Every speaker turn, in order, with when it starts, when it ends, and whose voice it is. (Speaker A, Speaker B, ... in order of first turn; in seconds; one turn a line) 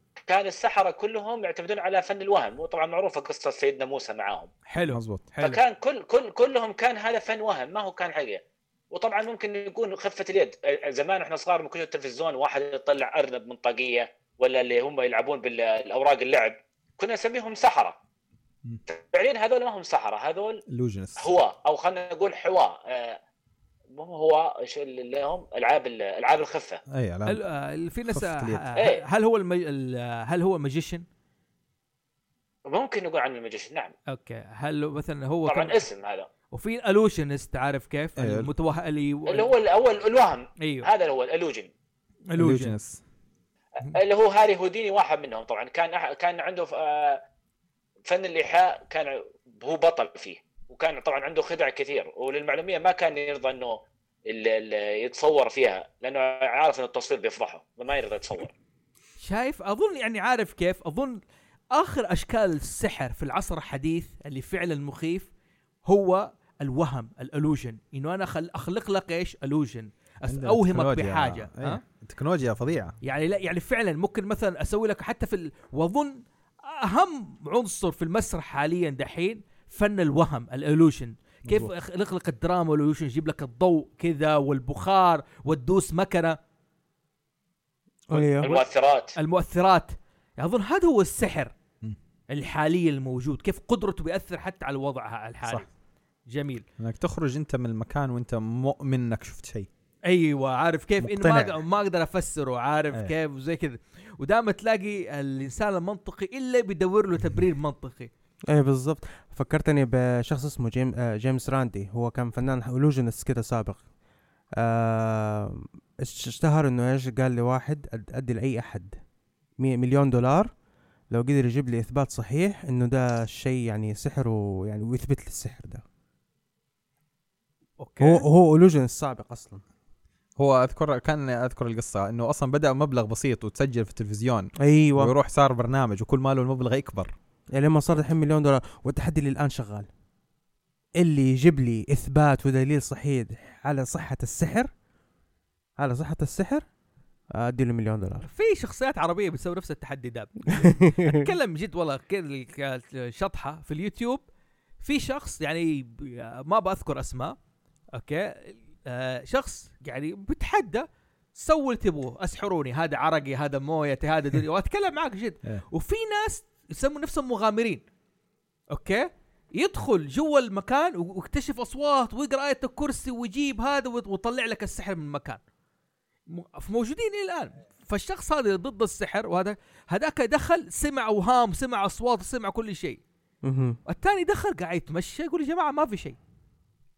Speaker A: 0.3-4.5
Speaker B: 4.7-5.6
Speaker C: 4.9-5.3
Speaker A: 5.4-18.0
Speaker A: 18.9-20.6
Speaker C: 20.7-21.3
Speaker A: 21.2-23.2
Speaker A: 23.9-26.8
Speaker C: 26.9-27.4
Speaker B: 27.2-31.0
Speaker C: 28.1-28.7
Speaker A: 28.8-29.0
Speaker A: 32.7-33.9
Speaker B: 34.1-35.8
Speaker A: 35.5-36.3
Speaker B: 36.5-39.5
Speaker C: 38.2-38.5
Speaker A: 39.3-41.7
Speaker B: 40.6-40.9
Speaker B: 42.3-42.7
Speaker C: 42.4-43.0
Speaker A: 43.8-47.2
Speaker A: 48.0-58.5
Speaker B: 59.2-61.2
Speaker B: 61.7-65.3
Speaker B: 65.8-71.8
Speaker C: 70.3-72.9
Speaker B: 73.0-86.4
Speaker C: 81.5-81.7
Speaker D: 88.1-88.5
Speaker B: 88.1-88.6
Speaker A: 88.4-89.2
Speaker B: 89.2-91.5
Speaker B: 92.3-95.7
Speaker B: 96.3-96.6
Speaker C: 96.8-99.7
Speaker B: 100.0-108.1
Speaker C: 101.0-101.5
Speaker D: 108.5-113.8
Speaker D: 114.6-119.0
Speaker D: 119.6-120.5
Speaker D: 121.1-125.8
Speaker B: 127.8-128.3
Speaker D: 128.0-129.6
Speaker C: 130.4-137.1
Speaker D: 134.6-135.1
Speaker D: 137.5-139.9
Speaker D: 141.0-144.7
Speaker D: 145.8-146.6
Speaker D: 147.3-148.3
Speaker B: 148.2-154.2
Speaker D: 150.6-151.3
Speaker B: 154.8-157.3
Speaker B: 157.9-167.8
Speaker B: 168.7-175.4
Speaker B: 176.3-183.0
Speaker D: 183.4-183.8
Speaker B: 183.8-186.2